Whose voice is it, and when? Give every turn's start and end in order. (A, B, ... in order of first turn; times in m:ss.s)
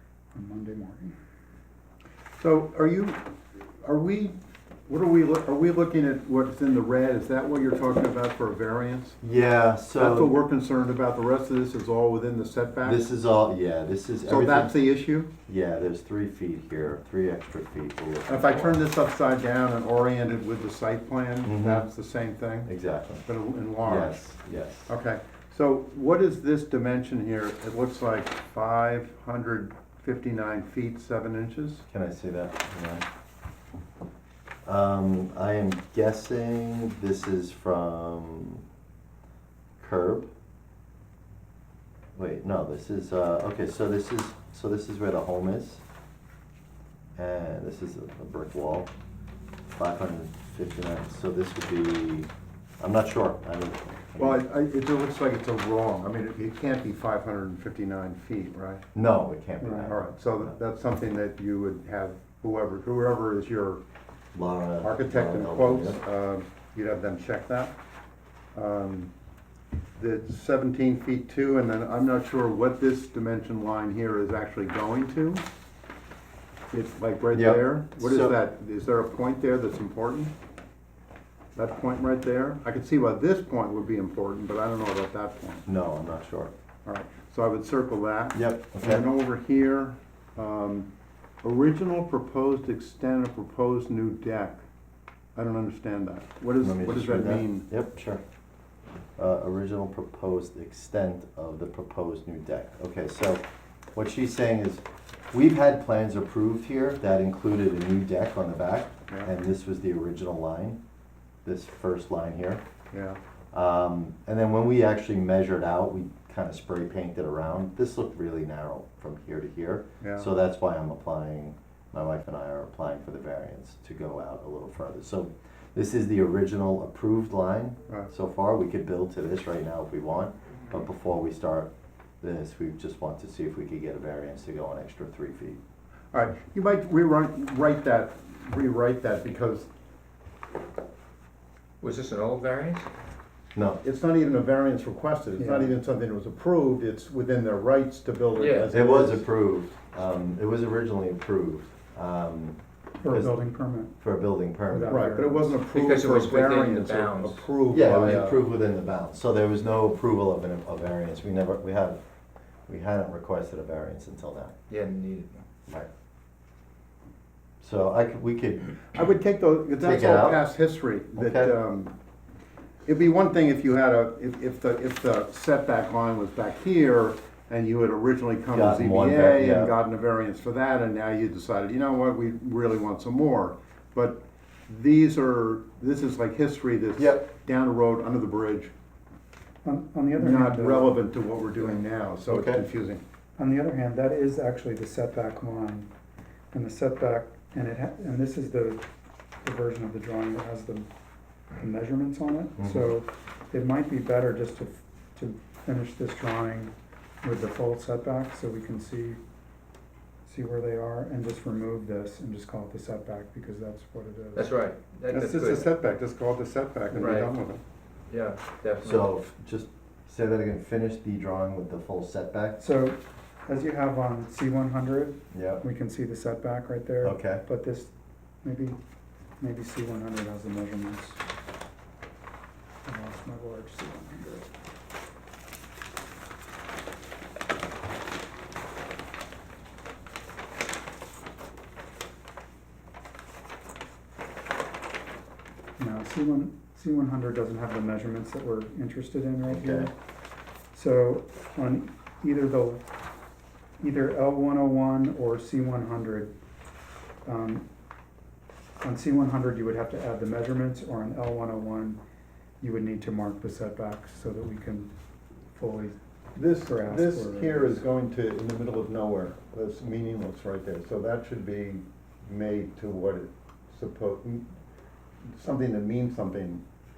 0:00.3-0:01.1 A
0:02.4-0:03.3 B
0:03.8-0:04.4 B
0:04.9-0:09.2 B
0:09.2-0:10.4 C
0:10.0-0:13.1 B
0:12.8-0:14.8 C
0:14.3-0:15.3 B
0:15.5-0:18.8 C
0:18.3-0:22.7 B
0:21.4-0:21.9 C
0:22.7-0:23.3 C
0:23.3-0:24.3 B
0:23.8-0:24.9 C
0:24.9-0:31.8 B
0:31.9-0:33.0 C
0:34.6-0:38.6 C
0:39.8-0:40.3 C
0:42.2-0:45.8 C
0:47.2-0:48.9 C
0:49.8-0:54.4 C
0:54.2-0:58.8 B
0:58.9-1:00.5 C
0:59.6-0:59.9 A
0:59.9-1:03.8 B
1:04.3-1:06.0 C
1:04.8-1:07.7 B
1:08.6-1:09.1 B
1:10.0-1:15.4 B
1:16.7-1:20.3 B
1:17.3-1:18.4 C
1:21.6-1:25.7 B
1:25.7-1:26.5 C
1:26.9-1:30.9 B
1:28.3-1:29.1 C
1:31.4-1:34.6 B
1:35.4-1:37.7 B
1:36.6-1:38.2 C
1:39.2-1:50.8 C
1:51.4-1:52.6 C
1:52.9-1:53.2 B
1:53.5-2:15.6 C
2:00.0-2:00.3 B
2:16.1-2:19.7 B
2:21.8-2:22.9 D
2:23.6-2:23.8 C
2:23.8-2:29.2 B
2:25.4-2:25.8 A
2:28.4-2:28.7 D
2:28.7-2:33.4 C
2:33.0-2:34.0 A
2:34.0-2:35.1 C
2:34.7-2:35.6 A
2:34.9-2:38.4 B
2:35.6-2:37.5 D
2:37.7-2:42.0 C
2:42.7-2:44.6 C
2:44.7-2:45.4 D
2:47.6-2:48.8 C
2:48.9-2:52.0 B
2:49.8-2:50.4 C
2:51.2-2:51.6 C
2:52.8-3:08.7 B
2:58.5-2:59.8 C
3:07.0-3:07.3 C
3:09.6-3:10.9 A
3:10.1-3:13.0 B
3:12.3-3:12.6 C
3:13.4-3:15.9 A
3:16.5-3:18.9 A
3:19.4-3:20.9 A
3:21.6-3:29.2 A
3:22.6-3:22.9 C
3:30.2-3:34.5 A
3:34.4-3:35.7 D
3:35.1-3:37.6 B
3:37.0-3:37.3 D
3:38.1-3:39.1 D
3:38.8-3:42.6 C
3:42.6-3:47.9 A
3:45.3-3:45.6 C
3:47.0-3:47.4 C
3:48.4-3:48.8 A
3:49.4-3:51.2 A
3:52.8-3:54.5 A
4:05.8-4:09.9 A
4:09.5-4:09.9 C
4:10.7-4:12.8 A
4:13.8-4:16.3 A
4:17.2-4:17.6 A
4:18.8-4:22.0 A
4:22.6-4:24.9 A
4:25.5-4:26.0 A
4:26.4-4:34.5 B
4:26.7-4:27.8 A
4:35.3-4:36.6 B